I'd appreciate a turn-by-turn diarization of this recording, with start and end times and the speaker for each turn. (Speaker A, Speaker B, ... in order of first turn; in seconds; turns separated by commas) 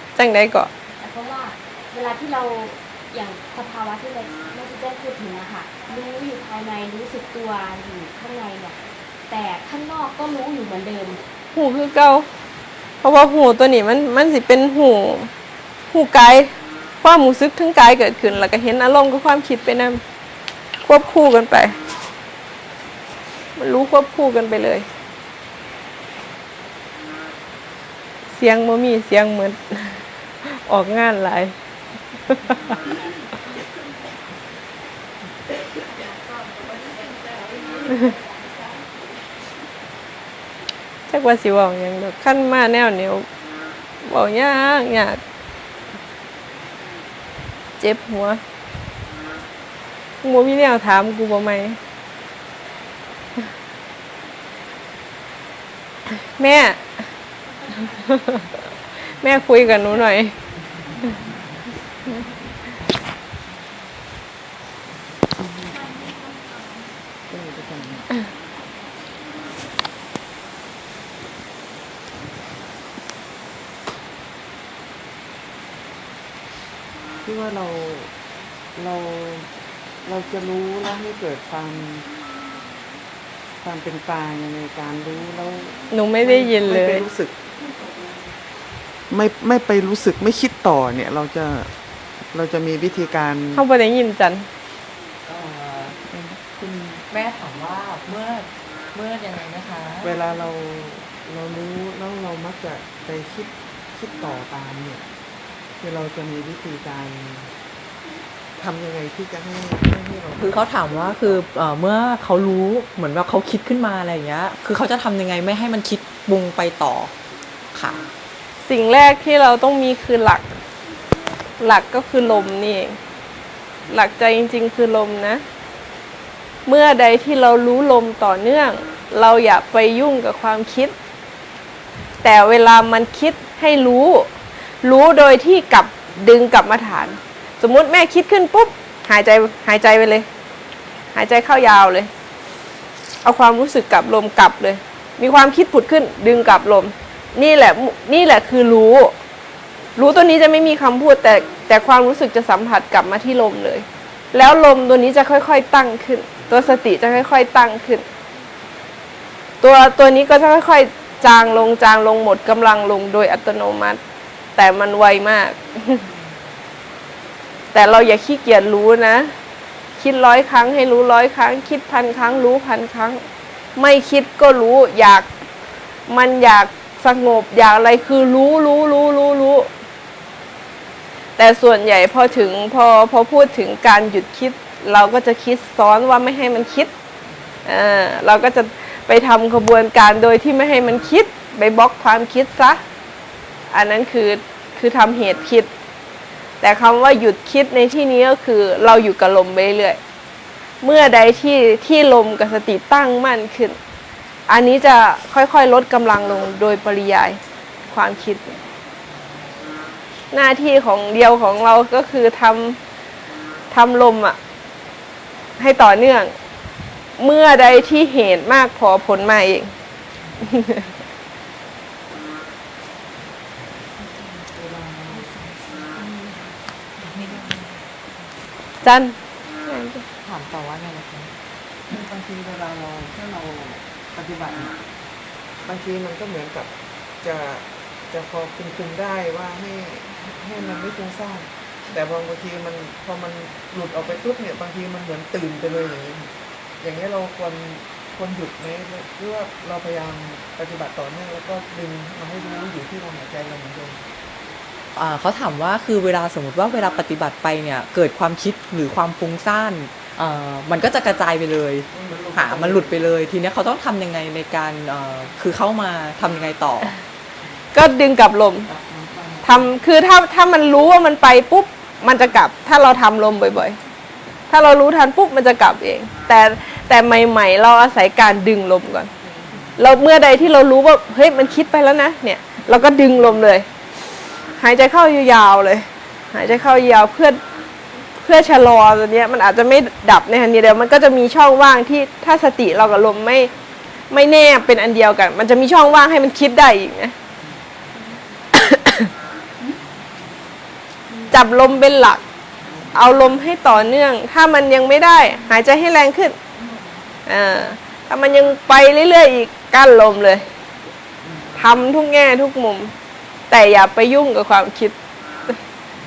Speaker A: 0.1-0.7, Speaker B: 1.0-8.8, Speaker B: 9.3-11.2, Speaker A: 11.5-12.3, Speaker A: 13.0-15.3, Speaker A: 15.9-16.5, Speaker A: 17.0-20.0, Speaker A: 20.8-21.8, Speaker A: 23.6-24.9, Speaker A: 28.3-31.5, Speaker A: 32.3-32.7, Speaker B: 36.5-37.4, Speaker A: 41.1-43.3, Speaker A: 44.0-45.2, Speaker A: 47.8-48.4, Speaker A: 50.2-51.8, Speaker A: 56.1-56.8, Speaker A: 57.7-58.5, Speaker A: 59.1-60.3, Speaker C: 65.4-65.9, Speaker C: 67.3-68.1, Speaker C: 77.2-78.1, Speaker C: 78.8-79.5, Speaker C: 80.0-82.0, Speaker C: 83.6-87.4, Speaker A: 85.9-87.0, Speaker C: 89.1-91.7, Speaker C: 92.3-93.6, Speaker A: 93.5-94.5, Speaker D: 95.2-96.0, Speaker C: 96.0-96.4, Speaker D: 96.5-100.1, Speaker C: 100.0-105.0, Speaker C: 105.8-107.5, Speaker C: 108.6-111.3, Speaker D: 110.4-117.1, Speaker D: 117.7-118.0, Speaker A: 118.6-120.5, Speaker A: 121.6-123.0, Speaker A: 123.9-125.4, Speaker A: 126.7-130.9, Speaker A: 132.2-134.3, Speaker A: 134.8-140.3, Speaker A: 141.1-142.1, Speaker A: 143.2-149.1, Speaker A: 150.0-158.1, Speaker A: 159.6-164.0, Speaker A: 164.6-166.1, Speaker A: 167.7-169.3, Speaker A: 170.0-173.2, Speaker A: 173.8-175.3, Speaker A: 176.1-179.7, Speaker A: 181.4-186.9, Speaker A: 187.6-192.8, Speaker A: 193.7-195.7, Speaker A: 196.6-200.0, Speaker A: 200.8-203.8, Speaker A: 204.5-208.6, Speaker A: 210.3-212.8, Speaker A: 213.7-214.4, Speaker A: 215.6-216.3, Speaker A: 217.2-219.7, Speaker A: 220.4-220.8, Speaker D: 224.1-224.4, Speaker C: 224.5-225.3, Speaker D: 225.1-226.2, Speaker D: 227.0-227.8, Speaker A: 228.8-230.0, Speaker D: 230.2-231.3, Speaker C: 231.9-234.8, Speaker C: 235.6-236.7, Speaker C: 237.2-254.0, Speaker D: 254.9-266.9, Speaker C: 261.9-263.0, Speaker A: 267.7-268.7, Speaker D: 268.7-269.6, Speaker A: 269.4-273.8, Speaker A: 274.5-279.1, Speaker A: 279.8-283.7, Speaker A: 284.6-287.4, Speaker A: 288.2-293.5, Speaker A: 294.1-297.1, Speaker A: 298.5-299.1, Speaker A: 301.3-302.2, Speaker A: 302.9-306.4, Speaker A: 307.2-310.4, Speaker A: 311.5-312.9, Speaker A: 313.5-314.9